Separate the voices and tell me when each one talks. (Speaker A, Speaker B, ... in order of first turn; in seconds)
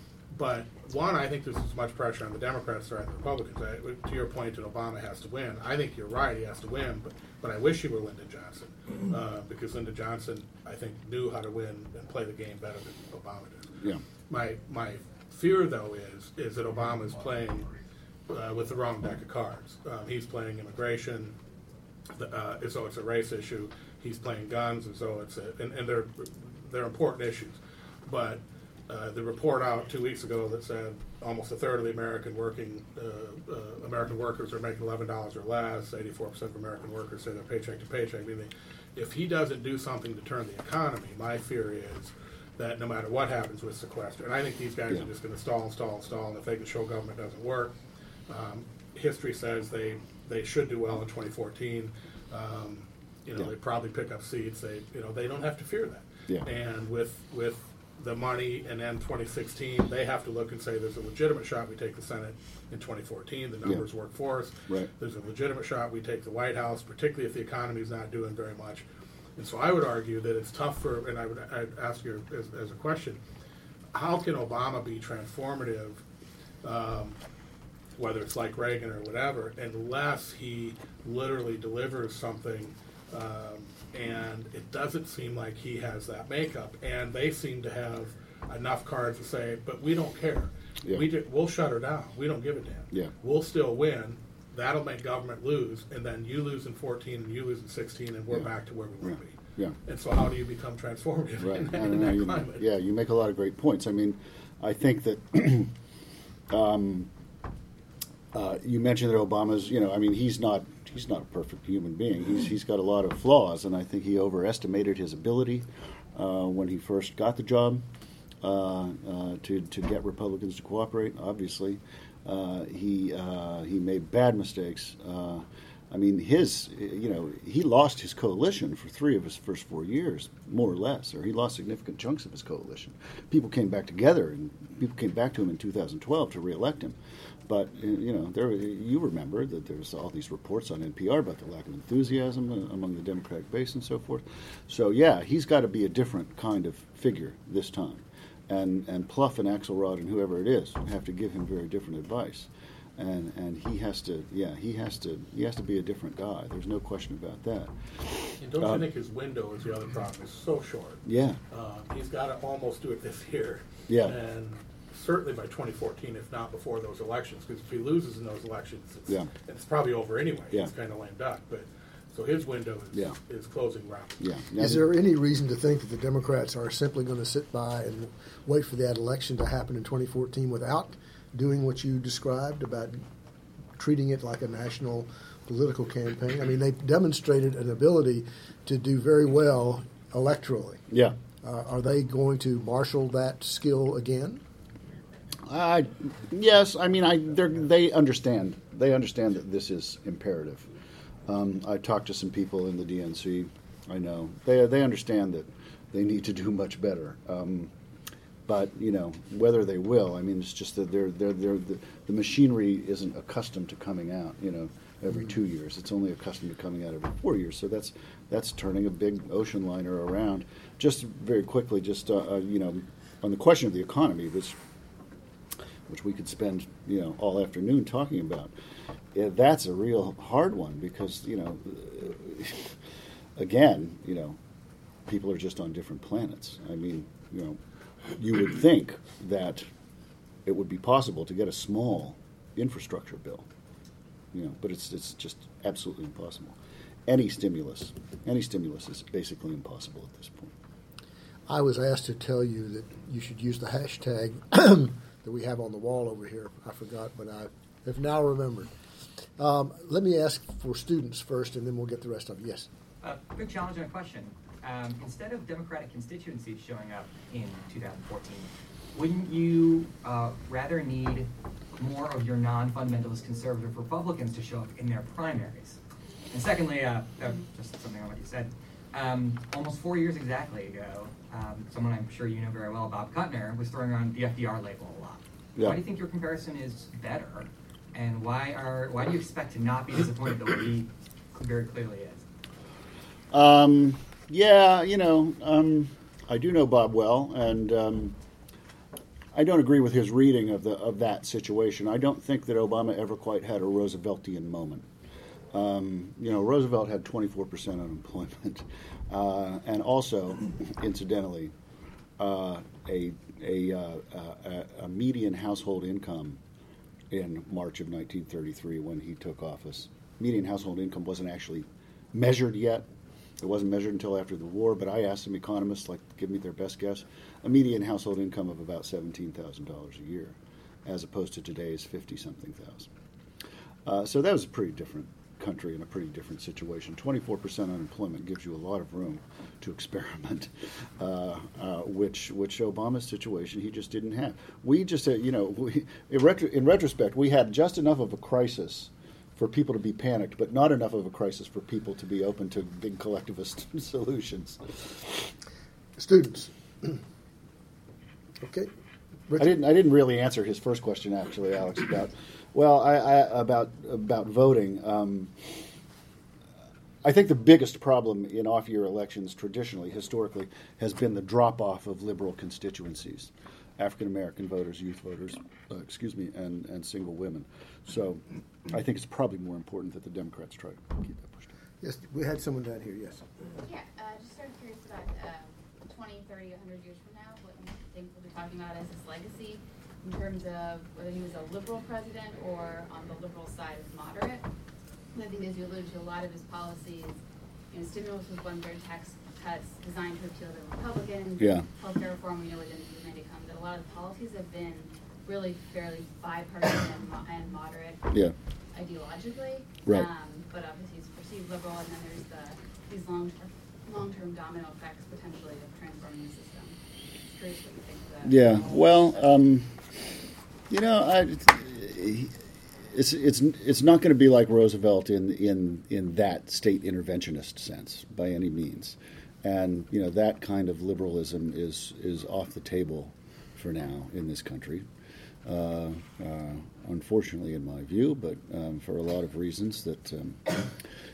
Speaker A: 0.3-13.7, 14.3-17.7, 18.3-21.4, 22.1-47.8, 48.3-68.8, 69.3-73.2, 73.9-76.0, 76.6-77.2, 78.0-102.6, 158.4-174.2
Speaker B: 99.0-99.8, 101.4-105.7, 106.5-107.1, 108.3-117.8, 118.4-158.8, 161.1-161.4, 163.9-164.2, 174.2-174.8, 190.9-191.2, 195.4-200.7, 201.2-207.7, 208.4-224.6, 225.9-228.5, 229.1-232.8, 233.3-234.4, 235.1-237.6, 238.1-239.7, 240.4-243.5, 244.3-250.5, 293.3-298.2, 299.3-304.9, 305.5-311.5, 312.2-316.4, 317.1-322.9, 323.4-332.9, 333.8-355.3, 359.4-365.7, 367.0-381.5, 401.4-401.7, 418.2-420.1, 420.7-434.9, 435.4-440.7
Speaker C: 174.6-183.0, 183.8-190.8, 191.4-194.4, 251.5-258.7, 259.4-262.7, 356.0-357.0, 358.4-358.7, 359.3-359.5, 381.8-383.3
Speaker D: 263.0-275.8, 276.3-292.2
Speaker E: 383.6-394.4, 395.1-397.2, 397.7-408.0, 408.7-418.8